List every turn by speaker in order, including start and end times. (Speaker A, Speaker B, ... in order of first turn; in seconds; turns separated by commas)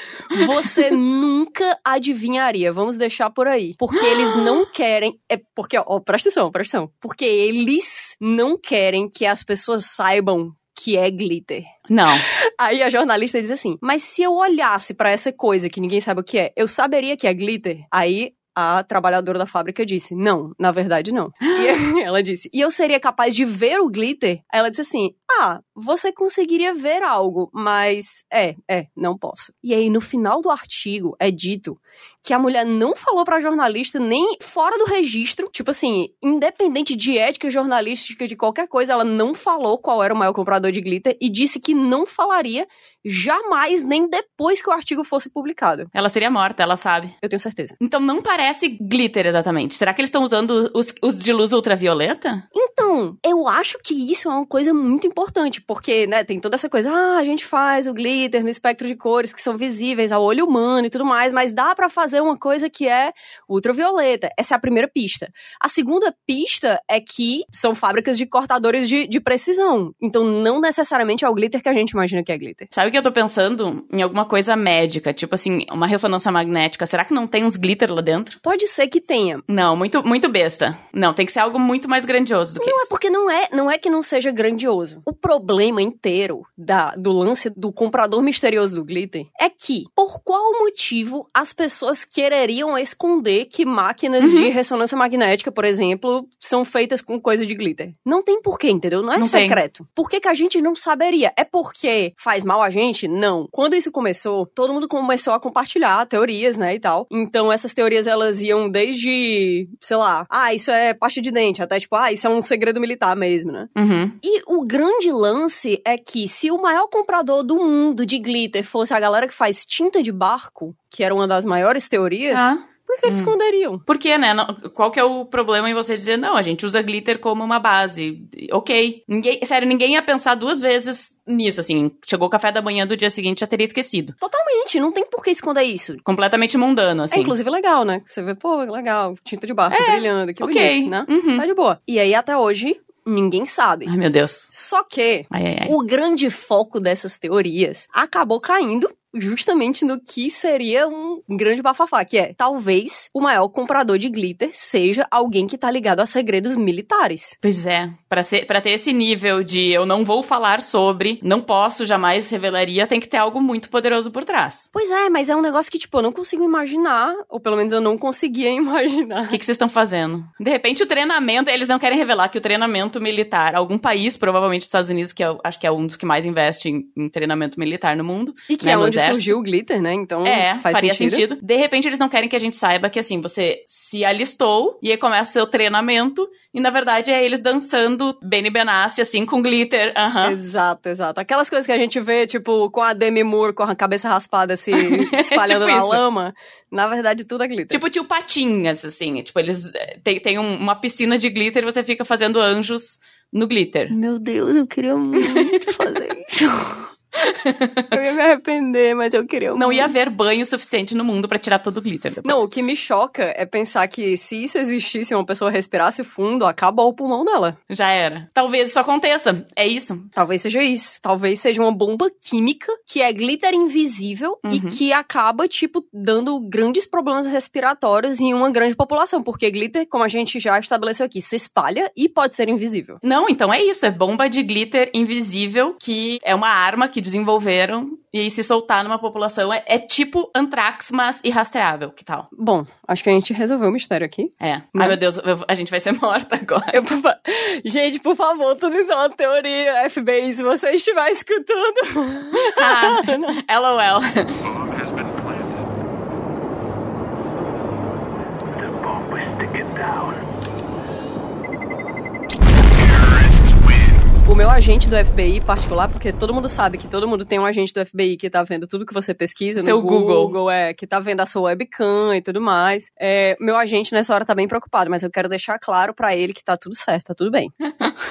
Speaker A: 0.2-45.9, Speaker B: 4.0-4.4, Speaker B: 11.9-12.2, Speaker B: 45.9-47.1, Speaker A: 47.2-47.8, Speaker B: 47.8-52.4, Speaker A: 52.5-72.7, Speaker B: 72.7-78.4, Speaker A: 78.4-79.4, Speaker B: 79.5-82.9, Speaker A: 82.6-113.7, Speaker B: 94.2-94.5, Speaker B: 99.2-99.6, Speaker B: 113.7-114.2, Speaker A: 114.2-123.8, Speaker B: 122.3-123.3, Speaker B: 123.9-134.2, Speaker A: 134.2-136.0, Speaker B: 136.0-137.3, Speaker A: 137.1-143.9, Speaker B: 139.7-141.4, Speaker B: 143.8-144.5, Speaker A: 144.5-157.3, Speaker B: 145.3-145.7, Speaker B: 157.4-164.7, Speaker A: 164.7-169.4, Speaker B: 169.3-179.4, Speaker A: 178.5-181.2, Speaker B: 180.2-190.4, Speaker A: 190.2-197.8, Speaker B: 194.7-196.0, Speaker B: 197.7-203.9, Speaker A: 203.9-206.9, Speaker B: 205.2-205.9, Speaker B: 207.2-207.9, Speaker A: 207.9-209.9, Speaker B: 209.5-212.5, Speaker A: 212.2-217.6, Speaker B: 217.7-220.1, Speaker A: 220.1-233.0, Speaker B: 224.4-224.8, Speaker B: 233.0-242.3, Speaker A: 242.3-245.0, Speaker B: 244.4-246.8, Speaker A: 246.7-253.4, Speaker B: 252.3-254.5, Speaker A: 264.2-277.5, Speaker B: 269.6-270.3, Speaker B: 277.6-277.9